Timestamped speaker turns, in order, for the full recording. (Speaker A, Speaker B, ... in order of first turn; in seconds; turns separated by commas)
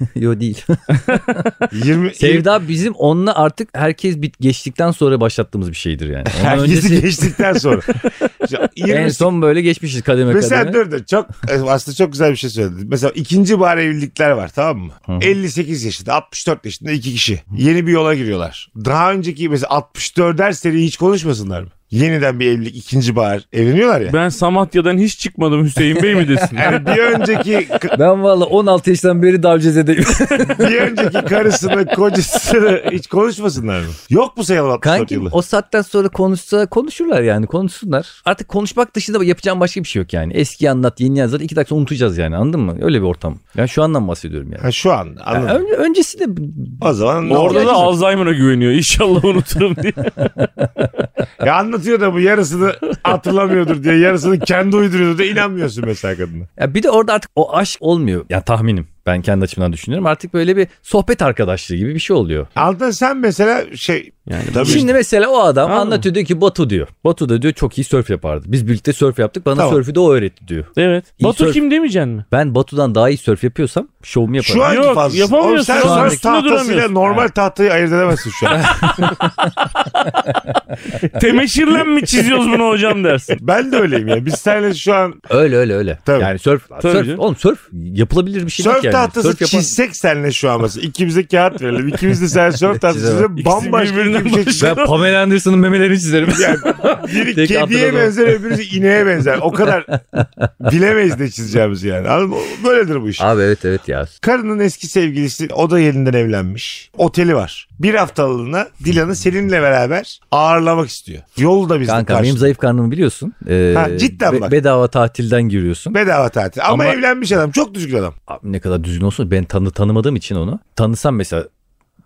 Speaker A: 0.1-1.4, Speaker B: 1.0-1.5, Speaker C: 1.7-2.5, Speaker A: 2.2-7.6, Speaker C: 6.3-9.3, Speaker A: 8.9-10.8, Speaker C: 10.3-24.2, Speaker A: 15.1-15.3, Speaker B: 24.1-26.8, Speaker A: 26.2-26.8, Speaker C: 26.5-27.9, Speaker A: 27.9-31.6, Speaker C: 30.5-35.4, Speaker A: 34.8-44.7, Speaker C: 44.6-45.6, Speaker A: 45.3-47.9, Speaker C: 46.8-47.9, Speaker B: 47.3-50.4, Speaker C: 51.4-56.5, Speaker A: 56.6-62.5, Speaker C: 62.6-64.9, Speaker B: 64.3-64.9, Speaker A: 64.6-71.6, Speaker B: 65.7-66.1, Speaker C: 69.6-69.8, Speaker B: 70.8-72.2, Speaker A: 72.3-74.7, Speaker C: 74.4-78.7, Speaker B: 74.6-77.0, Speaker A: 75.8-76.2, Speaker B: 78.5-80.1, Speaker A: 78.5-80.5, Speaker B: 81.1-83.4, Speaker C: 83.3-85.3, Speaker A: 85.3-89.7, Speaker B: 86.8-87.2, Speaker C: 88.6-94.8, Speaker A: 92.8-93.3, Speaker B: 93.4-94.9, Speaker A: 94.6-98.5, Speaker C: 96.3-100.0, Speaker A: 99.6-100.5, Speaker C: 100.6-103.3, Speaker A: 103.2-104.1, Speaker C: 104.2-112.4, Speaker A: 111.9-116.0, Speaker C: 113.7-114.5, Speaker C: 115.9-118.1, Speaker A: 116.7-117.0, Speaker A: 118.3-121.5